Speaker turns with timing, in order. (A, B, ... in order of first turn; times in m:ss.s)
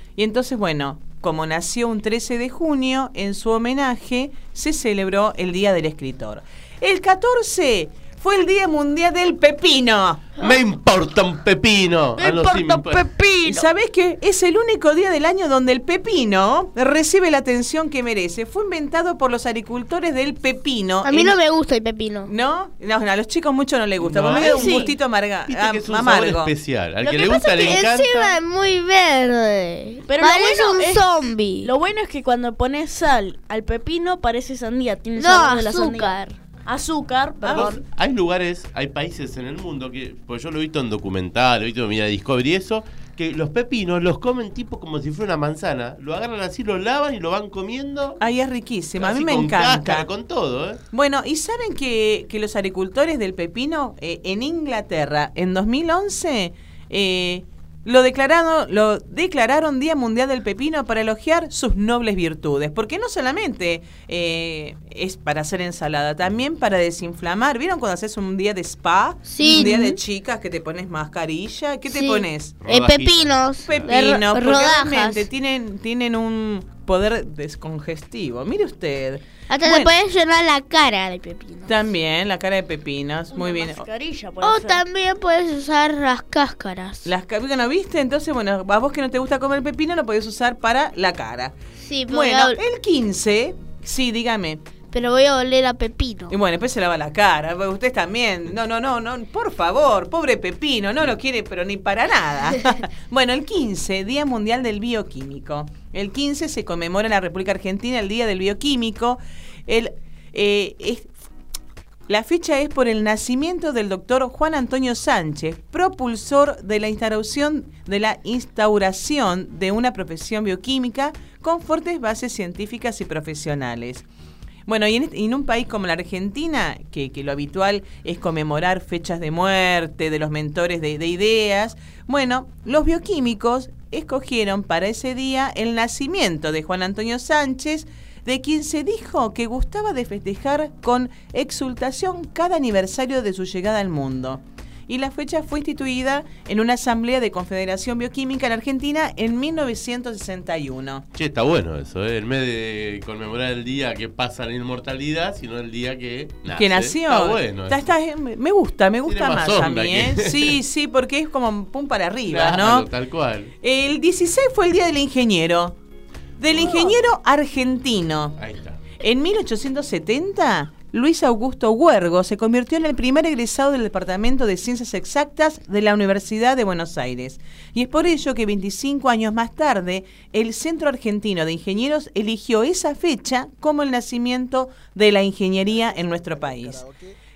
0:00.2-0:10.2 A
0:10.4-0:13.1 B
0:12.2-0:13.7 C
0:13.4-0:21.4 A
0:21.0-0:22.3 D
0:22.3-0:26.5 A
0:24.0-0:24.8 B
0:24.3-0:24.9 C
0:25.5-0:28.4 B
0:27.0-0:31.7 D
0:30.1-0:31.0 C
0:31.6-0:37.8 C
0:35.2-0:36.3 D
0:37.4-0:37.7 A
0:37.5-0:48.2 B
0:48.2-0:50.1 A
0:49.0-0:50.8 B
0:50.9-1:12.5 A
1:09.3-1:09.9 D
1:11.9-1:15.2 D
1:12.6-1:13.9 B
1:13.6-1:19.9 A
1:19.5-1:21.7 D
1:21.7-1:23.8 A
1:23.3-1:24.8 C
1:24.4-1:27.1 D
1:27.1-1:31.6 A
1:31.8-1:32.6 D
1:32.1-1:34.6 A
1:34.9-1:36.3 D
1:36.3-1:51.1 A
1:52.1-2:04.0 A
2:04.7-2:31.1 A
2:31.2-2:37.8 B
2:36.6-2:42.8 A
2:39.1-2:40.6 B
2:42.3-2:43.5 B
2:43.6-2:45.8 A
2:46.4-2:48.3 A
2:46.5-2:46.8 B
2:48.4-2:48.8 B
2:49.0-3:06.8 A